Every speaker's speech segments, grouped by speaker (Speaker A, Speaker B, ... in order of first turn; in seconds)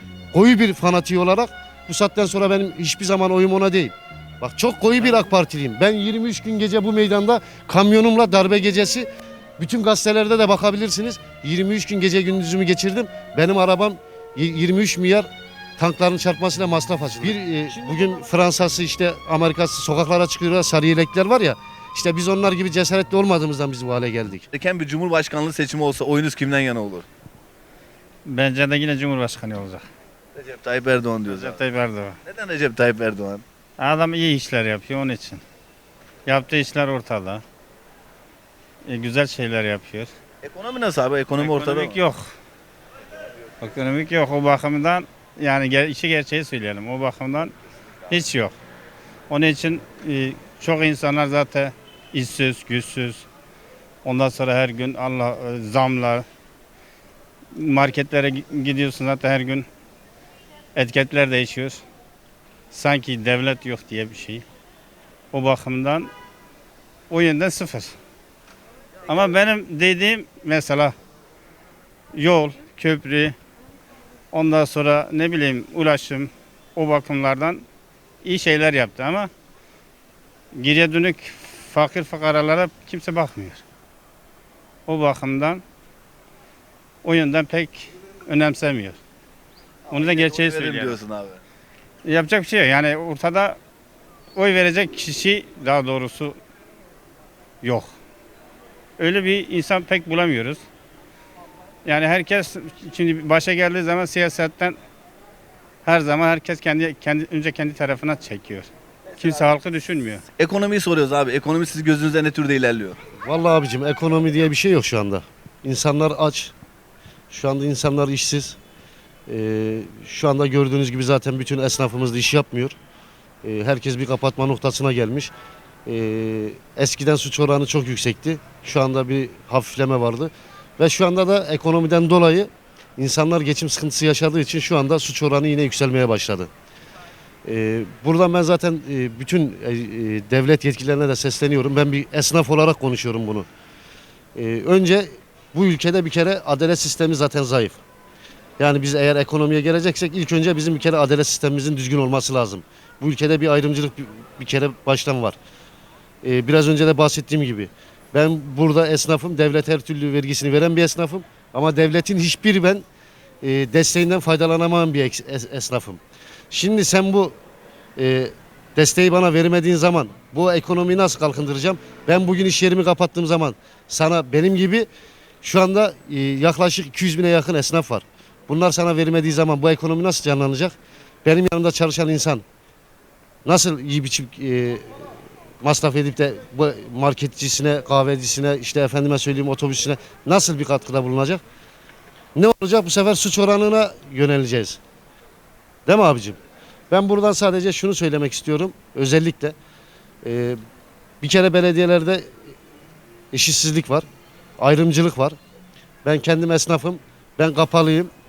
Speaker A: 0.3-9.1, 9.6-24.5, 113.2-116.5, 117.3-118.6, 119.3-122.7, 123.4-125.3, 125.8-136.5, 137.4-143.4, 144.3-147.8, 148.6-155.4, 156.2-162.8, 163.4-167.3, 168.0-174.9, 175.4-180.7, 181.2-182.4, 183.4-184.9, 185.6-191.4, 192.3-194.8, 195.8-196.4, 196.9-199.5, 200.2-200.6, 201.2-202.3, 203.3-204.1, 204.6-205.3, 206.0-208.1
Speaker B: 24.5-27.1, 30.3-31.6, 32.2-33.4, 40.4-42.0, 89.9-91.4, 110.4-113.0
Speaker C: 28.2-29.9, 31.3-32.2, 33.8-35.4, 36.2-37.4, 38.9-40.1, 41.4-42.3, 43.6-47.5, 48.1-48.5, 49.3-53.2, 54.0-56.2, 57.5-59.6, 60.8-61.8, 62.7-64.4, 65.3-66.1, 67.1-67.9, 69.1-70.9, 72.1-73.3, 74.3-77.6, 78.2-79.3, 80.5-83.6, 84.9-85.6, 87.0-89.0, 89.9-91.0, 92.0-93.6, 94.3-96.3, 97.6-97.9, 99.0-100.6, 101.8-104.8, 105.8-110.2